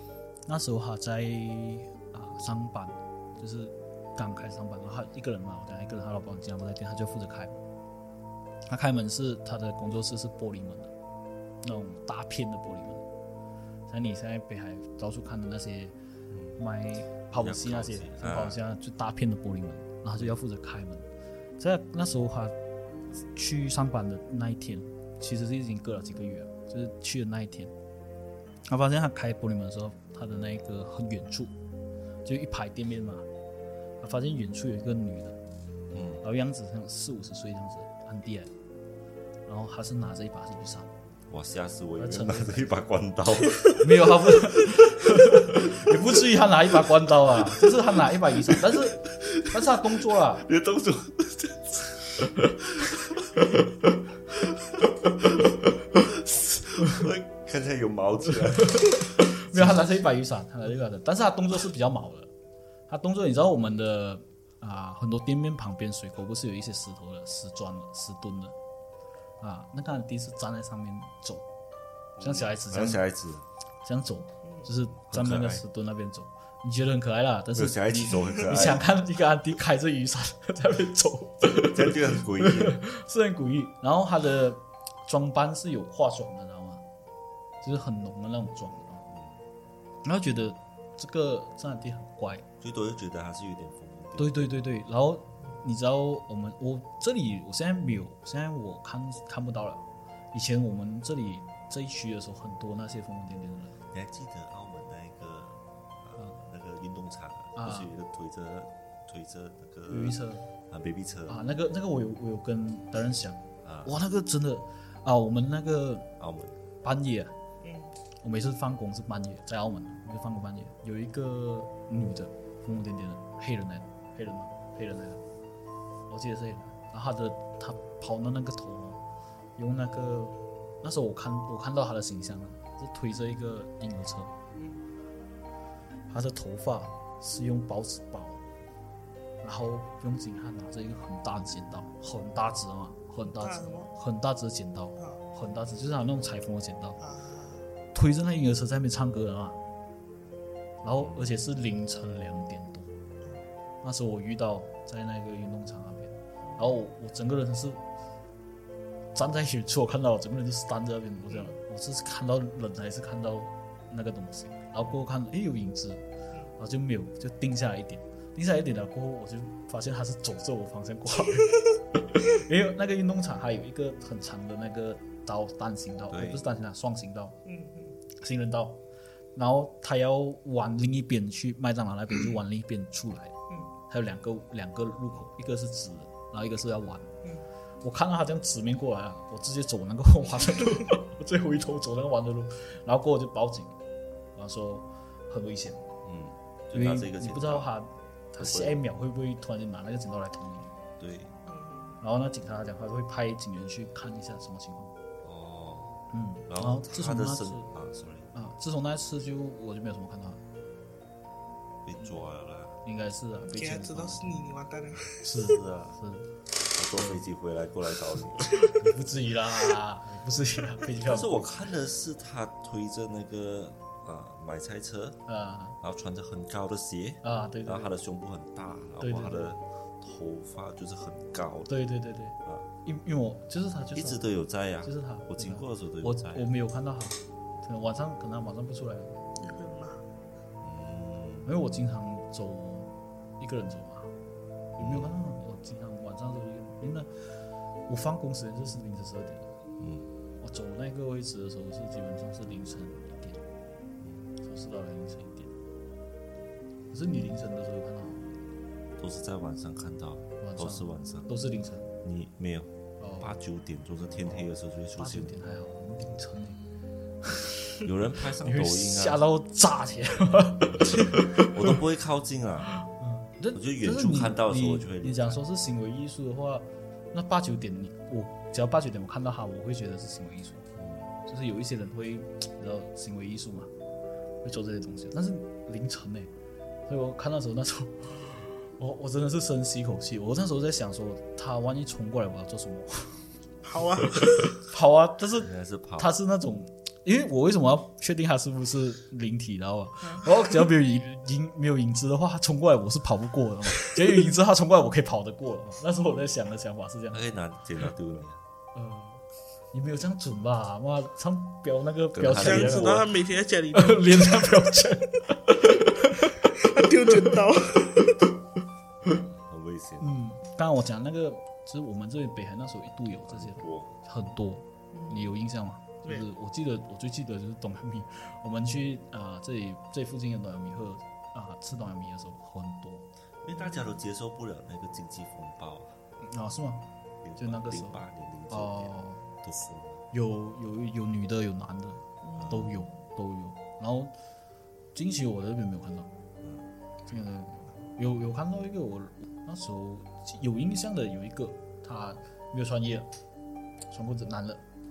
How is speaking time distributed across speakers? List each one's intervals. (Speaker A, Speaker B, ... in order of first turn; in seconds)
Speaker A: 0.5-7.6, 8.7-10.9, 11.6-13.1, 13.9-15.9, 16.6-22.5, 23.3-27.7, 28.7-31.5, 32.2-33.3, 34.0-35.4, 36.2-38.5, 39.5-40.9, 42.0-42.7, 43.8-50.5, 58.5-62.3, 62.9-68.5, 69.4-71.5, 72.2-73.0, 73.8-86.8, 87.6-89.1, 90.0-92.5, 94.2-103.8, 107.5-107.9, 109.9-110.5, 111.3-116.1, 116.8-117.3, 118.2-125.2, 126.1-129.0, 129.6-134.3, 136.1-138.4, 139.4-147.0, 147.9-149.6, 150.8-152.9, 153.8-157.8, 159.1-166.0, 166.6-177.4, 178.2-178.8, 179.3-183.3, 183.9-187.1, 187.8-193.8, 194.3-195.8, 196.7-200.7, 202.0-204.9, 206.1-207.7, 208.3-210.4, 212.8-214.4, 215.2-216.3, 216.9-217.2, 218.6-221.5, 225.3-225.8, 227.2-227.9, 229.0-229.6, 231.7-234.3, 234.8-239.2, 241.4-244.1, 244.8-247.3, 247.9-249.6, 250.4-253.4, 254.4-255.5, 256.9-258.3, 260.4-261.9, 263.0-263.3, 264.9-266.6, 267.2-267.8, 268.4-271.8, 272.9-280.7, 281.2-283.7, 284.4-286.3, 286.9-293.3, 294.1-307.3, 308.7-313.1, 313.7-316.5, 317.0-317.4, 320.0-333.1, 336.2-339.2, 340.1-344.1, 344.9-346.1, 347.1-353.1, 353.9-354.6
Speaker B: 16.3-16.6, 17.3-18.6, 35.9-36.2, 41.3-46.1, 46.8-53.6, 54.3-60.0, 72.2-73.5, 75.0-75.6, 77.5-78.8, 81.5-82.8, 89.1-89.4, 92.6-94.4, 103.9-111.4, 113.6-113.9, 116.2-116.6, 151.0-151.3, 176.1-176.4, 196.0-197.7, 198.4-198.8, 201.0-201.3, 205.2-208.3, 211.8-212.8, 215.3-216.0, 216.7-218.5, 221.0-225.2, 225.8-231.8, 233.9-236.5, 240.6-241.5, 244.8-245.2, 249.8-250.1, 254.0-254.3, 259.0-261.3, 262.0-265.3, 267.8-269.2, 270.6-272.7, 273.5-275.4, 280.8-281.1, 295.4-296.1, 307.1-308.4, 312.1-313.1, 319.0-320.2, 323.3-323.9, 333.4-336.0, 337.2-340.0, 342.3-342.7, 346.4-346.7
Speaker C: 117.6-117.9, 143.2-143.9, 145.0-145.2, 147.0-147.7, 161.3-161.6, 177.4-178.0, 201.4-202.0, 213.4-215.3, 239.3-240.1, 293.6-294.6, 312.3-314.6, 316.4-318.1, 324.9-325.3, 333.5-334.0, 342.2-342.9